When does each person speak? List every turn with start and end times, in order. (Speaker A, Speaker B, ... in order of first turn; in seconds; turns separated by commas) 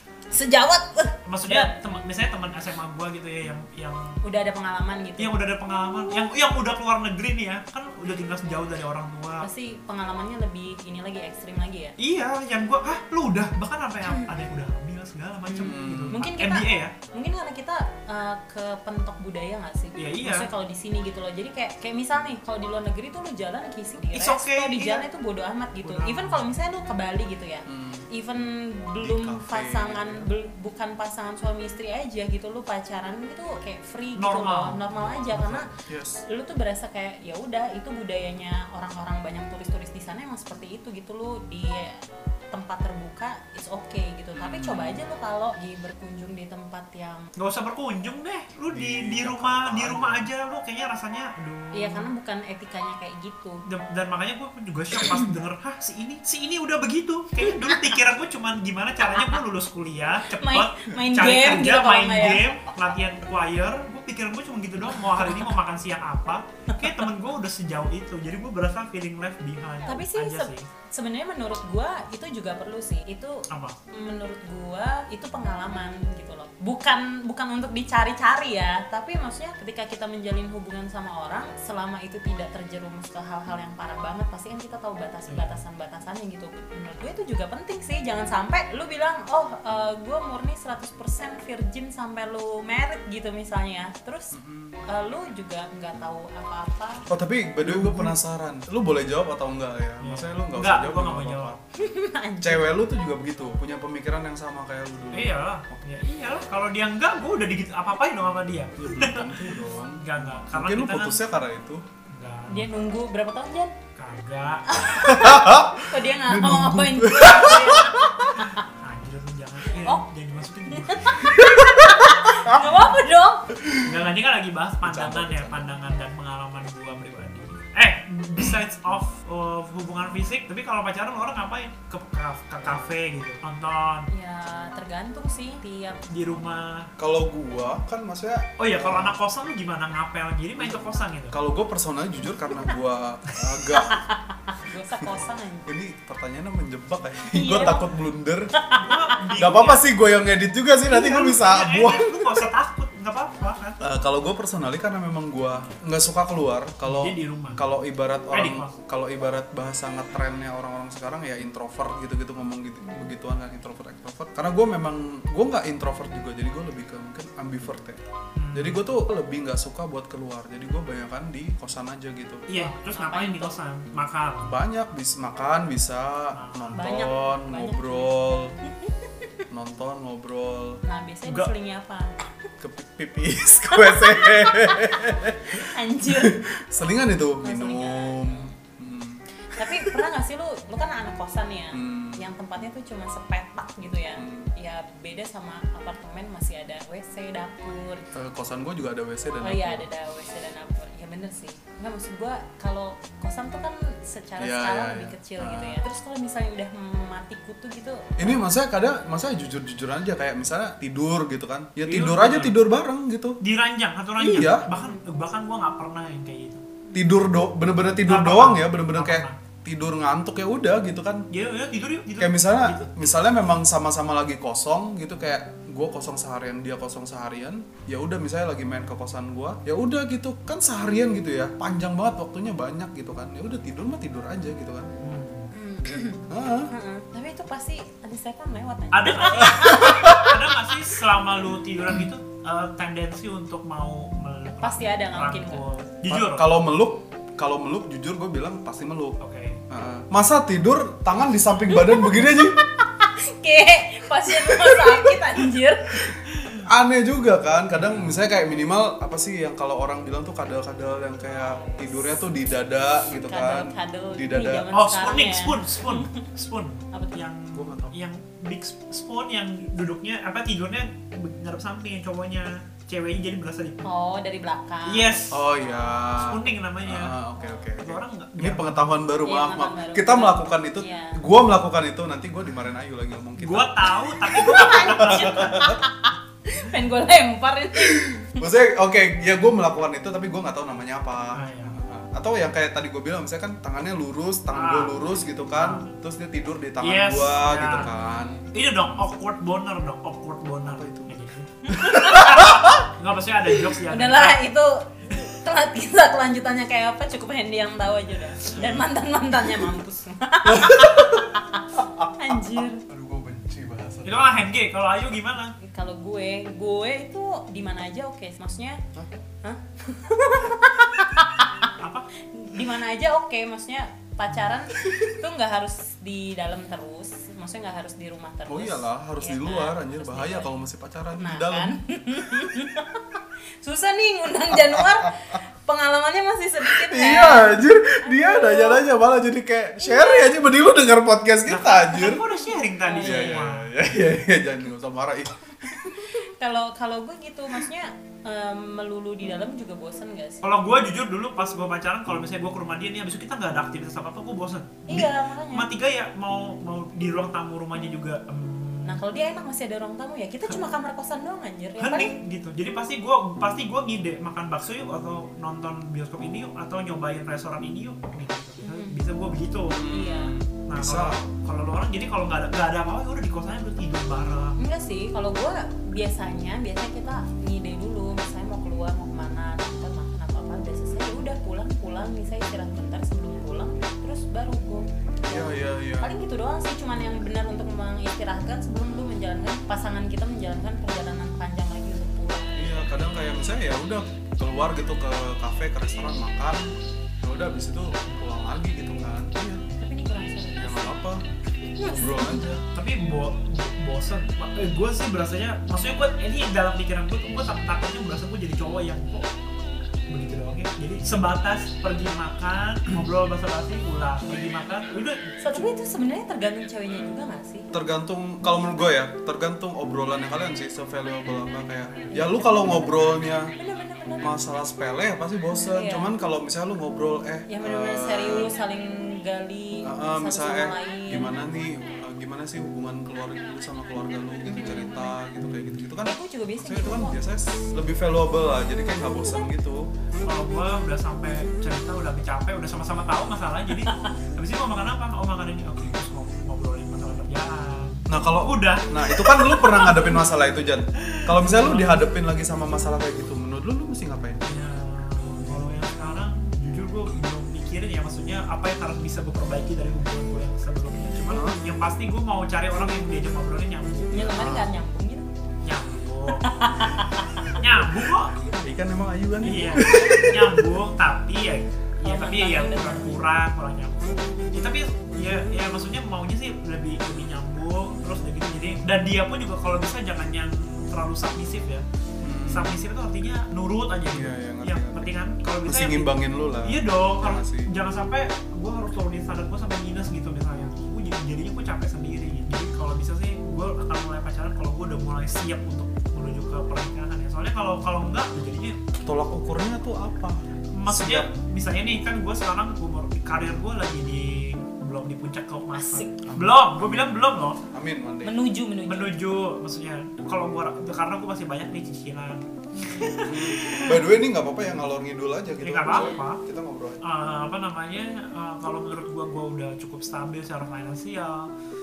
Speaker A: 0.3-1.7, Speaker B: 1.3-4.2, Speaker A: 4.2-5.4, Speaker B: 5.2-9.5, Speaker A: 9.4-11.9, Speaker B: 12.0-16.9, Speaker A: 15.5-35.7, Speaker C: 15.6-16.2, Speaker B: 20.0-20.5, Speaker B: 24.1-25.1, Speaker B: 25.8-26.5, Speaker C: 27.7-28.1, Speaker C: 29.0-30.3, Speaker B: 34.2-35.6, Speaker C: 35.8-36.2, Speaker A: 36.3-42.0, Speaker A: 42.5-47.3, Speaker C: 44.4-45.0, Speaker B: 47.4-52.1, Speaker C: 48.7-50.3, Speaker A: 51.7-53.6, Speaker B: 53.7-70.7, Speaker A: 57.4-57.9, Speaker A: 60.3-62.5, Speaker A: 69.9-97.1, Speaker B: 73.5-73.8, Speaker B: 85.3-85.6, Speaker C: 94.3-94.8, Speaker C: 97.1-101.6, Speaker B: 97.6-98.1, Speaker B: 100.0-101.5, Speaker A: 101.8-102.8, Speaker C: 102.4-105.8, Speaker B: 105.1-111.2, Speaker C: 108.8-111.8, Speaker B: 112.1-112.7, Speaker A: 112.5-113.7, Speaker B: 114.0-114.7, Speaker A: 114.7-118.6, Speaker C: 114.9-118.3, Speaker B: 118.7-121.3, Speaker A: 120.7-123.5, Speaker C: 121.3-122.6, Speaker C: 123.6-123.9, Speaker B: 123.8-134.1, Speaker C: 124.8-125.7, Speaker A: 134.1-136.0, Speaker B: 136.1-136.9, Speaker C: 137.0-139.2, Speaker B: 138.6-141.4, Speaker C: 140.6-144.0, Speaker A: 143.7-145.7, Speaker C: 145.7-148.5, Speaker A: 147.3-147.8, Speaker A: 148.6-149.2, Speaker B: 148.8-149.9, Speaker C: 149.4-152.4, Speaker B: 150.9-153.8, Speaker C: 153.8-168.0, Speaker B: 156.8-157.6, Speaker B: 158.3-158.7, Speaker B: 168.4-168.9, Speaker C: 168.5-172.5, Speaker B: 172.5-174.5, Speaker A: 172.6-173.6, Speaker C: 174.4-178.6, Speaker B: 176.3-176.9, Speaker A: 176.8-179.3, Speaker C: 179.5-180.8, Speaker A: 180.8-182.1, Speaker C: 182.6-190.0, Speaker A: 183.6-186.5, Speaker A: 187.4-188.5, Speaker A: 189.6-198.1, Speaker C: 191.7-192.3, Speaker C: 194.2-194.5, Speaker C: 198.1-199.9, Speaker A: 199.4-208.4, Speaker C: 204.4-205.8, Speaker C: 208.2-213.4, Speaker B: 211.8-212.6, Speaker B: 213.4-216.6, Speaker A: 214.2-215.0, Speaker C: 214.2-214.7, Speaker C: 216.9-221.3, Speaker B: 218.0-219.4, Speaker B: 221.3-223.0, Speaker C: 222.2-234.9, Speaker B: 235.0-235.5, Speaker A: 235.5-240.3, Speaker C: 236.3-236.7, Speaker B: 238.9-246.5, Speaker C: 239.4-240.3, Speaker A: 244.6-245.6, Speaker C: 246.1-249.2, Speaker B: 249.2-249.6, Speaker C: 249.7-252.6, Speaker A: 251.7-256.1, Speaker C: 254.4-255.2, Speaker C: 256.1-264.7, Speaker B: 257.7-258.2, Speaker A: 261.2-262.2, Speaker A: 263.2-266.3, Speaker B: 264.7-273.8, Speaker A: 266.9-267.3, Speaker C: 267.5-268.0, Speaker A: 273.8-276.4, Speaker B: 274.9-275.4, Speaker C: 275.3-285.8, Speaker B: 276.2-277.2, Speaker B: 277.8-279.0, Speaker A: 279.2-281.2, Speaker B: 283.4-285.6, Speaker A: 284.3-288.4, Speaker C: 287.8-298.5, Speaker B: 291.3-291.8, Speaker B: 294.5-295.9, Speaker B: 296.8-297.9, Speaker B: 298.5-304.4, Speaker C: 300.6-301.2, Speaker A: 301.6-302.6, Speaker C: 301.7-302.8, Speaker A: 303.8-311.6, Speaker C: 310.4-314.5, Speaker A: 312.2-312.8, Speaker B: 314.1-315.6, Speaker A: 315.6-318.8, Speaker A: 319.4-321.7, Speaker B: 321.8-322.1, Speaker A: 322.3-330.6, Speaker C: 328.5-331.7, Speaker A: 331.2-338.8, Speaker C: 334.5-335.1, Speaker C: 336.7-342.2, Speaker A: 339.8-340.4, Speaker B: 341.5-343.7, Speaker A: 342.8-343.4, Speaker C: 343.0-346.1, Speaker A: 345.7-350.5, Speaker B: 350.4-359.0, Speaker A: 354.9-355.7, Speaker A: 358.9-362.2, Speaker B: 361.8-369.9, Speaker A: 368.6-369.0, Speaker C: 369.7-371.2, Speaker A: 369.9-370.4, Speaker B: 370.7-374.6, Speaker A: 374.6-392.7, Speaker C: 385.2-386.1, Speaker C: 392.6-396.6, Speaker C: 397.2-399.6, Speaker A: 399.8-401.0, Speaker C: 400.6-401.2, Speaker A: 401.8-402.6, Speaker C: 401.8-402.5, Speaker B: 402.6-409.3, Speaker B: 410.1-415.3, Speaker A: 415.4-417.7, Speaker C: 417.7-423.5, Speaker A: 422.1-422.9, Speaker A: 423.6-424.3, Speaker C: 424.2-428.5, Speaker A: 425.7-426.1, Speaker A: 427.5-431.4, Speaker C: 429.8-439.9, Speaker A: 434.5-435.1, Speaker A: 436.0-437.2, Speaker B: 440.2-450.2, Speaker A: 443.9-444.1, Speaker C: 448.1-454.4, Speaker B: 451.0-452.1, Speaker B: 454.4-464.5, Speaker C: 461.3-461.6, Speaker A: 464.1-465.3, Speaker C: 464.2-464.7, Speaker B: 465.6-466.5, Speaker A: 466.4-467.6, Speaker B: 467.6-468.4, Speaker C: 468.6-470.7, Speaker B: 469.4-481.9, Speaker A: 472.0-473.2, Speaker C: 482.2-482.8, Speaker B: 482.5-498.8, Speaker C: 484.1-485.1, Speaker C: 485.6-487.7, Speaker C: 499.0-501.3, Speaker B: 500.7-507.6, Speaker A: 505.7-506.1, Speaker C: 506.3-508.3, Speaker A: 508.2-509.1, Speaker B: 508.9-514.0, Speaker A: 512.7-513.3, Speaker C: 513.2-517.0, Speaker B: 515.6-516.4, Speaker A: 515.9-516.2, Speaker B: 517.0-521.5